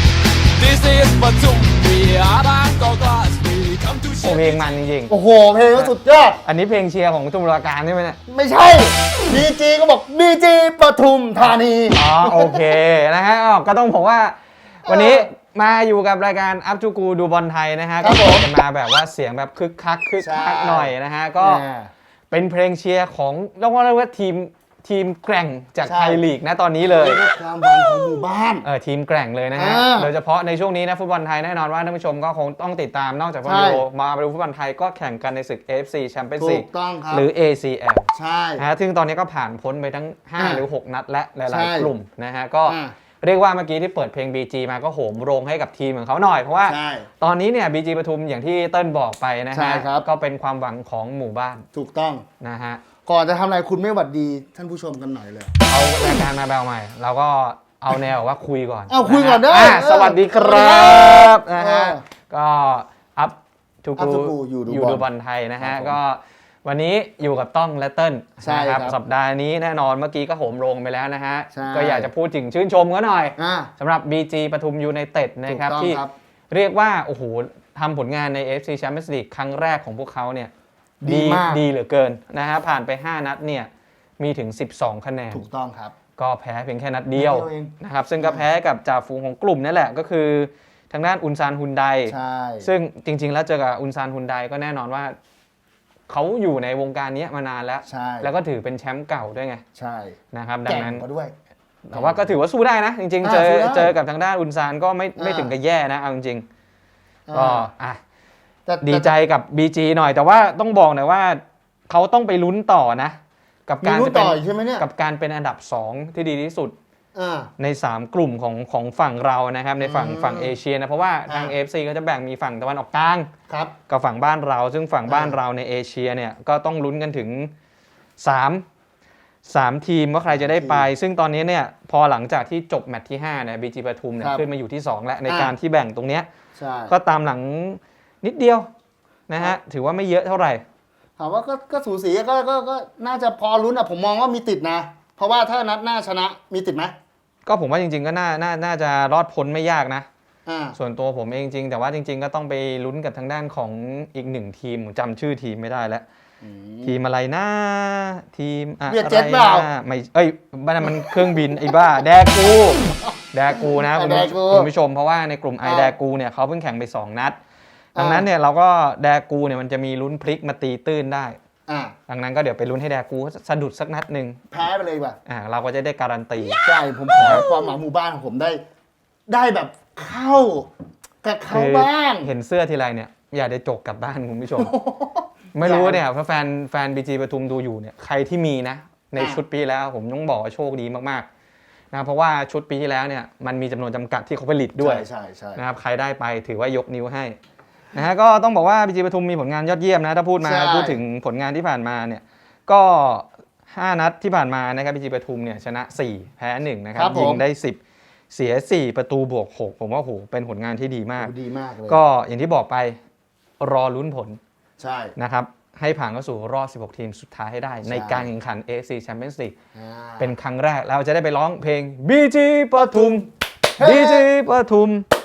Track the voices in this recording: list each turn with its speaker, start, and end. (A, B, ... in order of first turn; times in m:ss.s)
0:00.5-0:04.7 A
0:04.2-0:05.1 B
0:05.1-0:06.4 C
0:05.7-0:08.2 B
0:08.2-0:12.7 C
0:11.9-0:21.6 B
0:14.8-0:15.2 C
0:18.0-0:18.5 C
0:20.2-0:21.9 C
0:22.3-0:27.2 B
0:25.8-0:26.2 C
0:26.8-0:28.7 C
0:28.6-0:51.6 B
0:29.5-0:30.1 C
0:33.4-0:33.8 C
0:36.4-0:37.3 C
0:38.1-0:38.6 C
0:40.4-0:40.6 C
0:41.5-0:41.9 C
0:42.7-0:43.0 C
0:46.6-0:47.1 C
0:49.5-0:50.1 C
0:51.7-0:52.3 C
0:52.4-0:52.8 B
0:52.9-0:55.5 C
0:55.7-1:20.5 B
0:58.9-1:02.0 C
1:04.0-1:05.0 C
1:05.6-1:06.0 C
1:08.4-1:09.0 C
1:11.5-1:12.1 C
1:13.4-1:13.7 C
1:15.5-1:16.1 C
1:21.0-1:21.6 C
1:21.0-1:25.5 B
1:25.3-1:26.0 C
1:26.2-1:35.1 B
1:27.1-1:28.5 C
1:32.0-1:32.7 C
1:36.1-1:39.6 B
1:37.8-1:38.3 C
1:39.7-1:41.3 C
1:40.3-1:41.0 B
1:41.8-1:46.4 B
1:41.9-1:42.3 C
1:43.2-1:44.0 C
1:45.2-1:45.5 C
1:47.3-1:47.7 C
1:47.3-1:48.0 B
1:48.6-1:49.2 C
1:48.8-1:56.7 B
1:53.8-1:54.9 C
1:57.1-1:57.5 C
1:57.6-2:03.3 B
1:59.8-2:00.6 C
2:01.3-2:01.6 C
2:03.5-2:03.8 C
2:03.9-2:07.5 B
2:05.0-2:05.4 C
2:08.2-2:08.6 B
2:09.4-2:16.3 B
2:10.3-2:10.9 C
2:14.2-2:14.4 C
2:15.2-2:15.5 C
2:16.6-2:17.0 C
2:16.9-2:18.7 B
2:19.3-2:20.6 B
2:21.2-2:26.9 C
2:27.4-2:30.1 B
2:30.4-2:30.8 C
2:30.7-2:36.0 B
2:36.4-2:37.0 C
2:36.8-2:47.4 B
2:38.9-2:39.7 C
2:40.8-2:42.0 C
2:43.0-2:44.7 C
2:45.6-2:45.9 C
2:47.9-2:51.4 B
2:48.0-2:48.3 C
2:51.7-2:52.0 C
2:52.1-2:54.4 B
2:54.5-2:55.2 C
2:55.2-2:57.5 B
2:56.5-2:58.6 C
2:59.3-3:00.7 C
3:01.2-3:02.3 C
3:01.5-3:04.7 B
3:04.6-3:06.0 C
3:05.5-3:11.2 B
3:09.2-3:09.4 C
3:11.9-3:17.4 B
3:14.8-3:15.6 C
3:17.9-3:27.8 B
3:20.4-3:21.0 C
3:26.9-3:27.4 C
3:28.3-3:31.3 B
3:31.2-3:32.0 C
3:31.9-3:33.0 B
3:33.6-3:34.4 B
3:34.8-3:35.1 C
3:35.2-3:39.5 B
3:37.8-3:38.3 C
3:39.7-3:40.4 C
3:40.2-3:43.3 B
3:42.8-3:43.2 C
3:43.8-3:44.3 C
3:43.8-3:45.0 B